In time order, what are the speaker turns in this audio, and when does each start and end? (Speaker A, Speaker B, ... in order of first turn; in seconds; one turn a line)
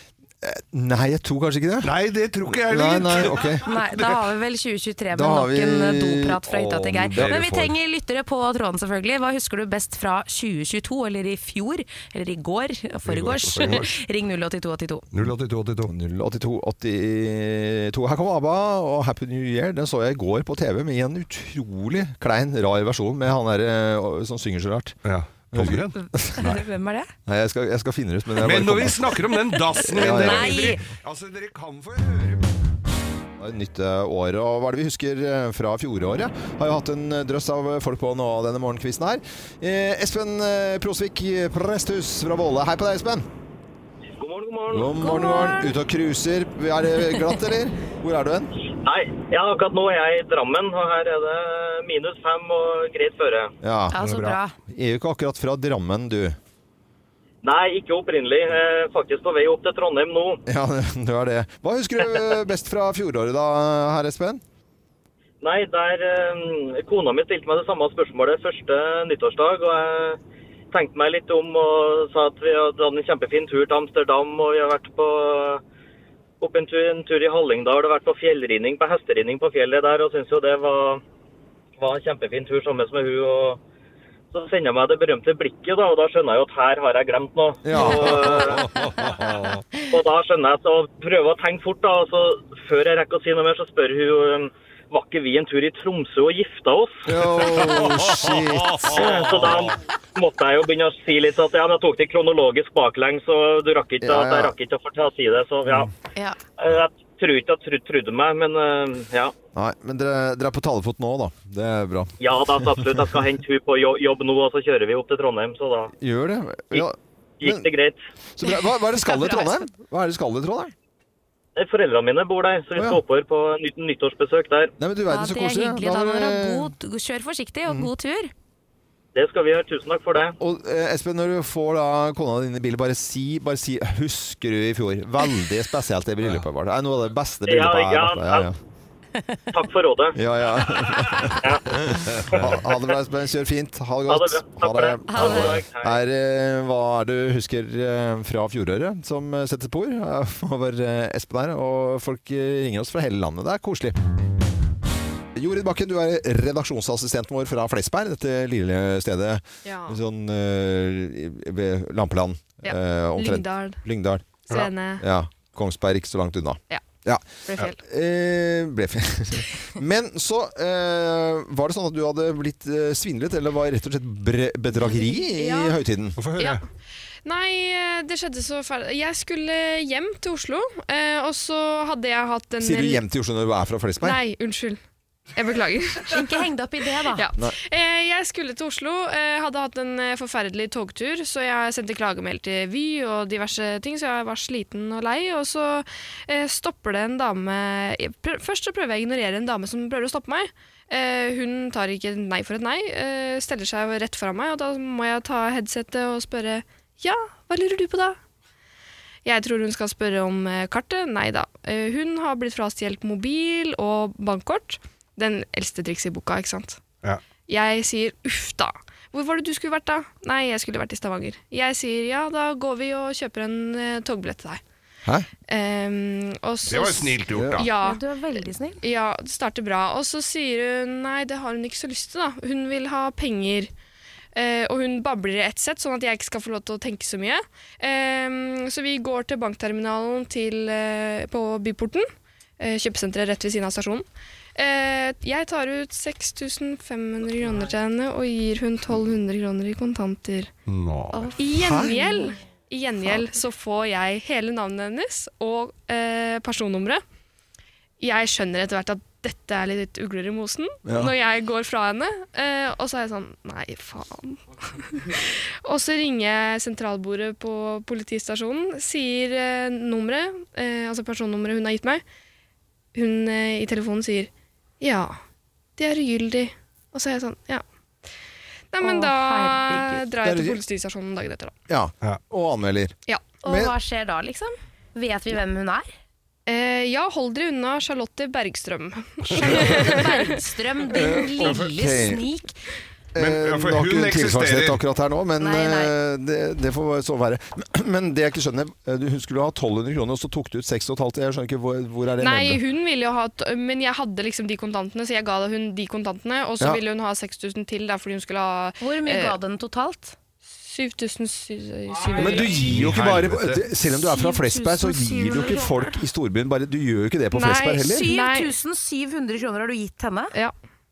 Speaker A: 0.4-1.9
Speaker B: 1.8-4.2
Speaker A: 2.7-3.6
Speaker C: 3.6-15.1
Speaker A: 5.1-6.4
Speaker B: 6.5-7.5
Speaker A: 7.1-7.7
Speaker B: 13.0-14.0
Speaker B: 15.1-15.9
Speaker A: 15.8-25.0
Speaker B: 25.0-26.6
Speaker A: 25.5-26.4
Speaker C: 26.3-27.1
Speaker A: 27.2-29.2
Speaker B: 28.4-32.5
Speaker C: 29.9-30.8
Speaker A: 29.9-30.7
Speaker A: 33.4-43.2
Speaker D: 44.1-45.0
Speaker A: 44.7-48.5
Speaker C: 45.0-45.7
Speaker D: 48.8-53.5
Speaker A: 53.6-53.9
Speaker C: 53.9-54.5
Speaker B: 54.0-54.4
Speaker A: 54.7-56.4
Speaker D: 57.4-60.4
Speaker A: 60.5-64.4
Speaker D: 65.4-70.2
Speaker D: 70.7-75.6
Speaker D: 76.4-81.0
Speaker D: 81.8-83.6
Speaker D: 84.3-88.8
Speaker A: 87.6-89.6
Speaker D: 89.9-97.1
Speaker A: 97.0-99.2
Speaker B: 97.6-99.7
Speaker D: 98.8-105.9
Speaker A: 104.0-104.5
Speaker D: 106.6-109.3
Speaker A: 109.5-112.7
Speaker D: 112.2-115.9
Speaker A: 116.0-117.7
Speaker D: 117.4-118.0
Speaker A: 118.3-120.7
Speaker C: 118.4-119.7
Speaker D: 121.5-124.7
Speaker A: 122.8-123.0
Speaker A: 124.8-126.7
Speaker C: 125.1-128.3
Speaker D: 129.1-130.3
Speaker A: 130.4-138.6
Speaker D: 137.5-138.5
Speaker D: 139.5-140.2
Speaker A: 140.1-141.4
Speaker D: 141.4-142.4
Speaker A: 141.9-154.0
Speaker D: 144.1-146.0
Speaker C: 145.1-145.6
Speaker A: 155.3-164.3
Speaker E: 159.6-160.0
Speaker E: 162.6-163.8
Speaker E: 164.5-165.0
Speaker A: 165.0-167.2
Speaker E: 167.4-167.8
Speaker A: 167.8-176.2
Speaker C: 174.8-175.6
Speaker B: 176.2-176.6
Speaker E: 177.2-183.0
Speaker A: 182.6-184.2
Speaker E: 184.0-184.8
Speaker E: 185.3-186.2
Speaker C: 186.1-187.3
Speaker E: 187.1-208.2
Speaker E: 209.2-216.8
Speaker E: 217.5-224.6
Speaker E: 225.5-228.0
Speaker B: 226.6-227.7
Speaker A: 227.3-227.6
Speaker C: 227.8-228.8
Speaker E: 228.8-233.7
Speaker E: 234.3-242.1
Speaker E: 242.6-250.5
Speaker B: 250.7-251.3
Speaker E: 251.3-257.0
Speaker A: 251.5-252.0
Speaker E: 258.0-272.0
Speaker A: 260.9-261.1
Speaker E: 272.9-274.3
Speaker E: 274.8-275.1
Speaker E: 275.8-277.6
Speaker E: 278.7-281.5
Speaker C: 278.8-280.0
Speaker A: 280.2-280.6
Speaker A: 281.7-283.7
Speaker E: 283.1-283.4
Speaker C: 283.4-285.9
Speaker E: 286.4-290.4
Speaker A: 289.4-289.9
Speaker C: 289.4-292.6
Speaker A: 290.9-292.2
Speaker B: 291.4-291.7
Speaker A: 293.1-302.6
Speaker B: 293.2-294.8
Speaker C: 295.4-295.9
Speaker E: 302.2-309.4
Speaker C: 308.8-310.1
Speaker E: 310.5-312.7
Speaker A: 312.2-318.1
Speaker B: 312.4-313.6
Speaker C: 313.8-315.9
Speaker E: 317.3-318.5
Speaker C: 317.8-320.3